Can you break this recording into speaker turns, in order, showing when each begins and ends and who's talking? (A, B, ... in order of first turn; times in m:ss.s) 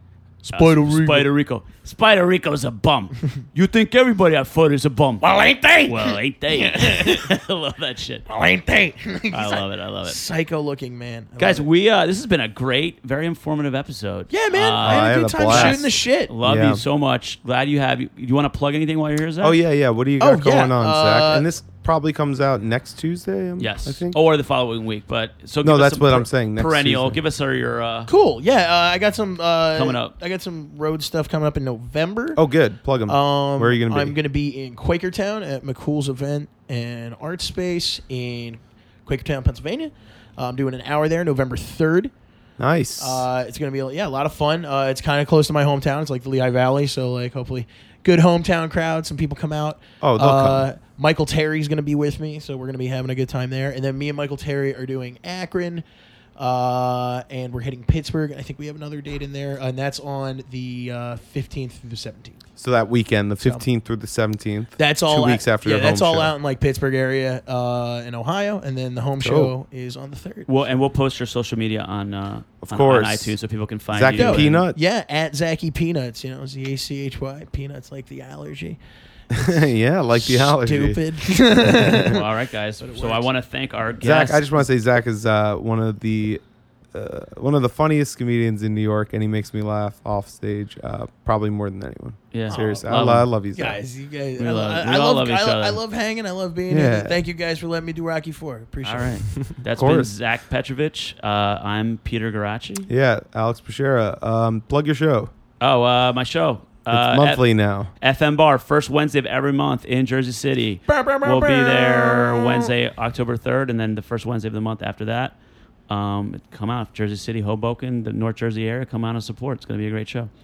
0:00.4-0:01.3 A
0:00.5-0:05.3 B
0:05.2-0:07.3 A
0:05.8-0:08.3 B
0:08.3-0:11.7 A
0:09.3-0:10.2 B
0:11.4-0:19.6 B
0:14.3-0:16.3 A
0:14.8-0:15.9 C
0:16.4-0:16.8 C
0:19.4-0:24.2 C
0:20.2-0:21.5 A
0:23.6-0:28.1 B
0:25.6-0:27.2 C
0:28.1-0:32.4 A
0:29.8-0:30.1 B
0:32.4-0:34.2 C
0:33.1-0:42.1 A
0:42.6-0:43.3 C
0:43.0-0:55.8 A
0:50.0-0:50.7 C
0:56.4-1:02.4 A
1:02.6-1:06.3 C
1:03.4-1:03.7 A
1:04.8-1:10.5 A
1:09.2-1:09.5 C
1:10.5-1:14.6 B
1:12.6-1:13.4 C
1:13.9-1:14.8 C
1:14.2-1:18.8 A
1:19.3-1:21.0 C
1:19.3-1:22.2 A
1:22.0-1:24.7 B
1:22.8-1:23.3 A
1:24.0-1:26.4 C
1:26.9-1:33.8 C
1:32.3-1:33.3 B
1:32.5-1:39.3 A
1:34.4-1:35.8 B
1:36.7-1:37.2 C
1:38.8-1:42.9 B
1:39.6-1:40.1 C
1:42.9-1:45.3 C
1:45.6-1:47.4 B
1:46.9-1:47.9 C
1:48.0-1:55.4 B
1:50.9-1:52.7 A
1:55.9-2:00.3 B